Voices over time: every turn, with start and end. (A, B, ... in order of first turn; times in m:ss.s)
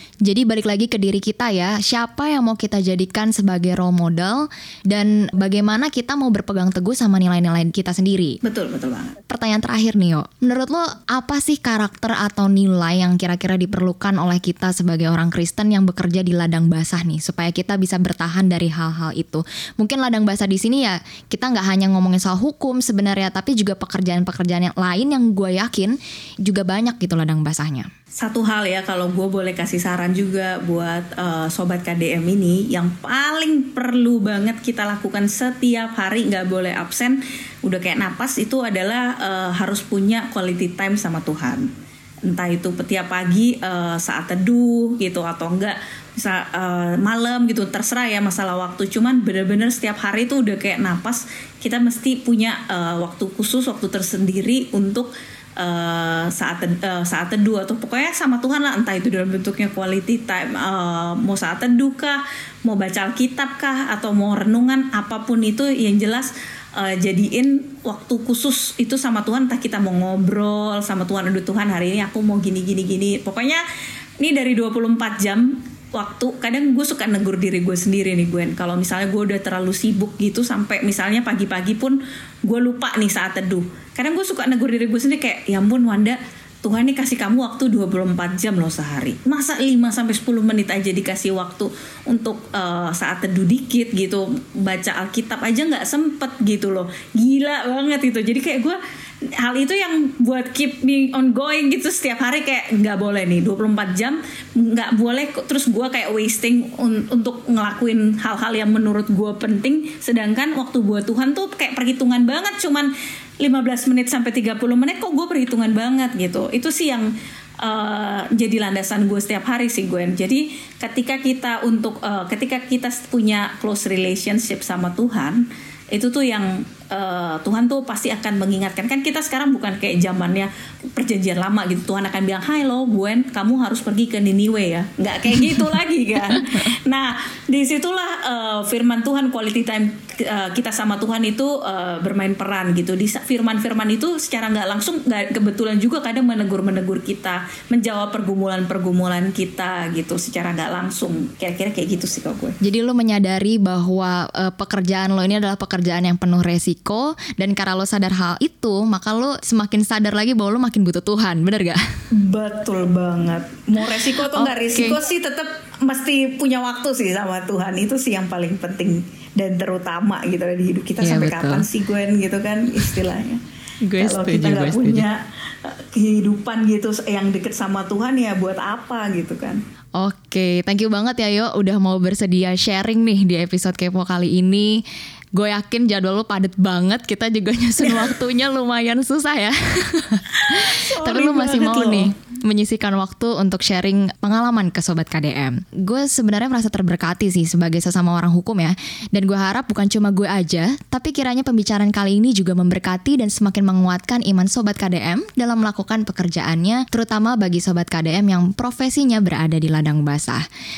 0:00.2-0:08.4 A
0:08.4-0:09.2 B
0:09.3-0:27.9 A
0:28.2-0:41.7 B
0:42.3-1:13.6 B
1:14.2-1:38.8 B
1:39.4-1:52.9 B
1:53.4-1:57.1 B
1:57.6-2:32.6 B
2:32.6-2:41.8 A
2:42.1-2:53.4 B
2:44.3-2:45.0 A
2:51.0-2:51.6 A
2:53.8-2:55.0 A
2:54.0-2:59.6 B
3:00.0-3:04.8 A
3:05.4-3:30.4 A
3:07.8-3:08.1 B
3:10.4-3:12.1 B